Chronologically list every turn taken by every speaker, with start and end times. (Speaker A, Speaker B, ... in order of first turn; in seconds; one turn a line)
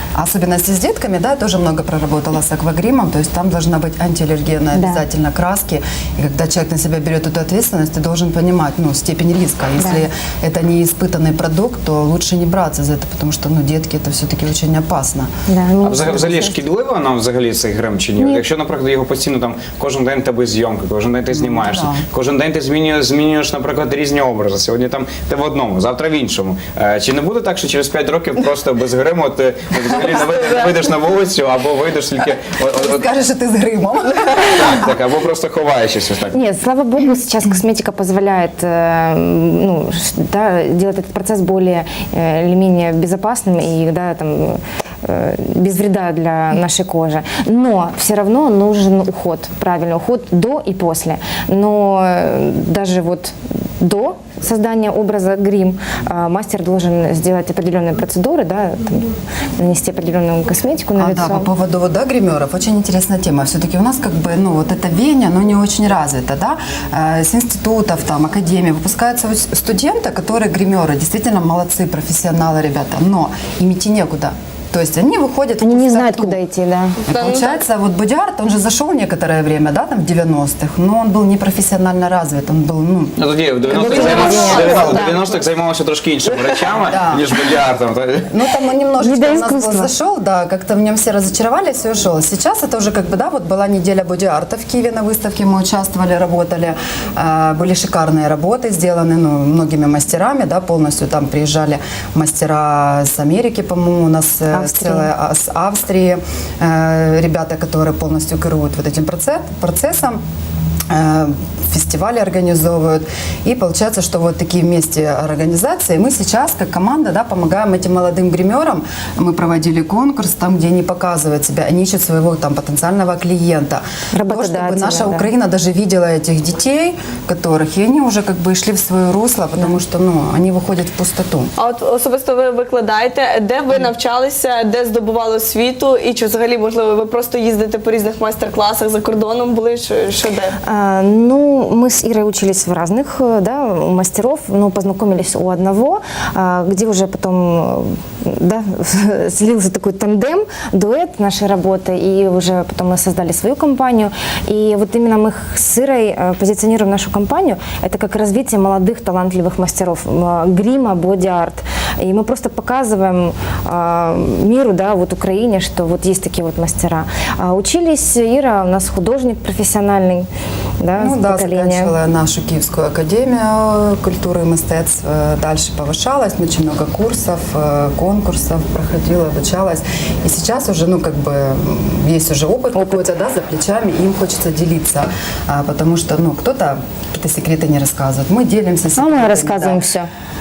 Speaker A: 0.1-15.3
Speaker B: 4.7-5.0
Speaker B: 9.8-10.1
Speaker B: 15.5-16.6
Speaker C: 15.8-33.0
Speaker B: 18.2-18.4
Speaker A: 21.3-22.1
Speaker D: 29.9-30.8
Speaker A: 32.7-34.8
Speaker C: 34.4-36.4
Speaker B: 36.3-61.5
Speaker A: 61.0-76.4
Speaker B: 75.6-77.0
Speaker A: 77.1-83.2
Speaker D: 77.1-77.6
Speaker C: 83.2-88.3
Speaker B: 83.7-85.2
Speaker A: 83.8-85.4
Speaker A: 86.9-87.3
Speaker A: 88.3-110.2
Speaker B: 89.0-89.9
Speaker B: 104.5-105.1
Speaker A: 110.9-131.5
Speaker B: 124.1-125.3
Speaker D: 131.6-140.6
Speaker B: 140.6-170.3
Speaker B: 170.8-171.9
Speaker A: 171.0-189.8
Speaker B: 182.8-183.1
Speaker B: 188.9-190.1